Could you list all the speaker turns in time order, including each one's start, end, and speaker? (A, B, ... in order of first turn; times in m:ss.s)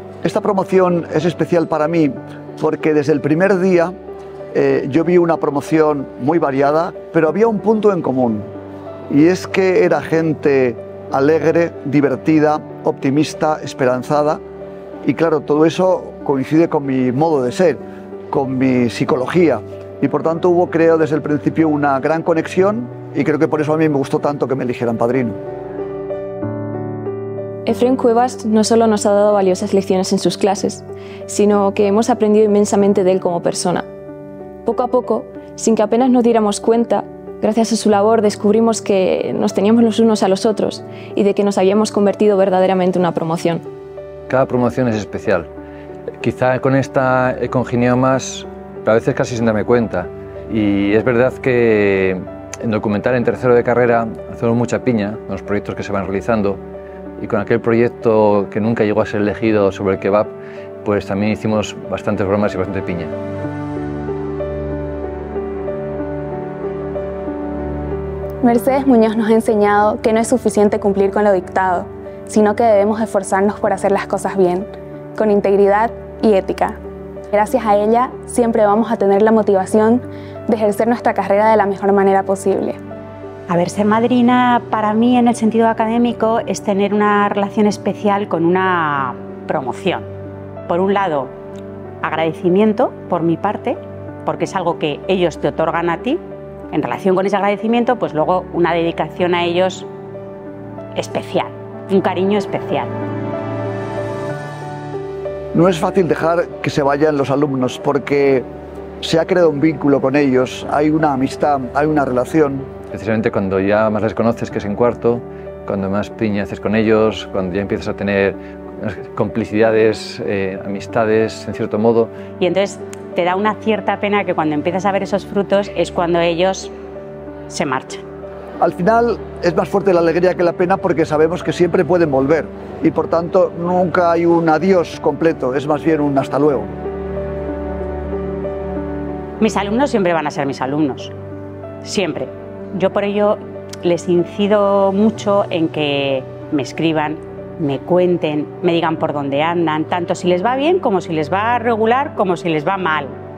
0:00.2-0:03.9 A
0:04.5-0:08.5 A
0:09.1-0:14.4 A
0:15.0-0:25.4 A
0:27.6-0:33.8 B
0:34.6-0:43.6 B
0:44.3-0:45.5 C
0:46.2-0:56.6 C
0:57.2-1:03.1 C
1:08.4-1:16.8 D
1:17.3-1:22.8 D
1:23.5-1:30.1 E
1:30.7-1:31.3 E
1:32.0-1:36.2 E
1:36.7-1:39.9 E
1:41.0-1:42.9 E
1:45.5-1:48.4 A
1:49.0-1:52.7 A
1:52.9-2:02.1 C
2:02.4-2:06.7 E
2:07.5-2:08.0 E
2:08.6-2:16.7 A
2:19.4-2:21.1 E
2:21.8-2:33.1 E